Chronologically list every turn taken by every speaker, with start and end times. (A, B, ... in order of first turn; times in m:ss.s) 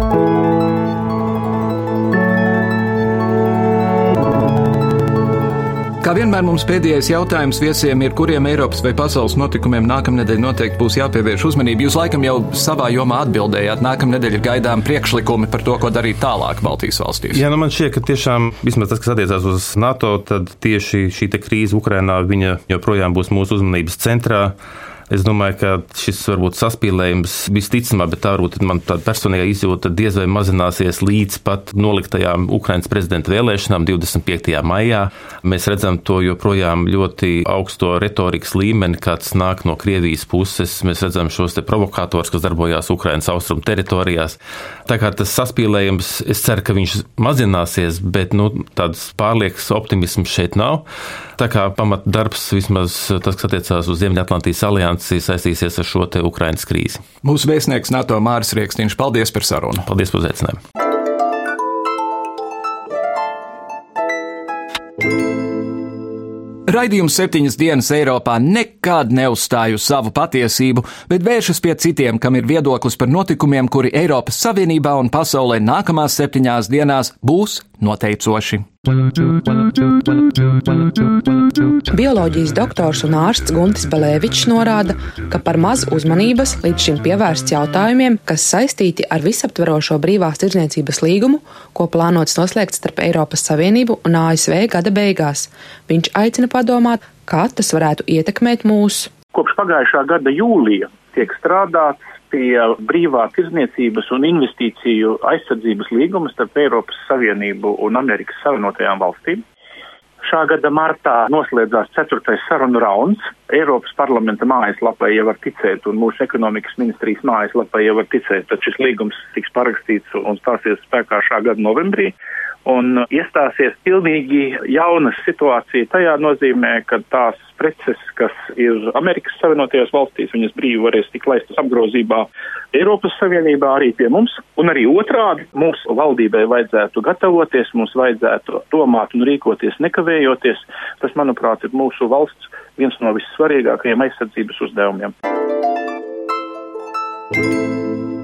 0:06.0-0:17.4 A
0:17.3-0:24.5 B
0:25.1-0:50.8 B
0:51.4-0:57.0 B
0:57.2-0:59.8 A
0:59.8-1:00.6 B
1:06.7-1:18.6 A
1:21.9-1:39.1 C
1:39.3-1:49.4 D
1:50.2-2:02.1 D
2:02.6-2:25.1 D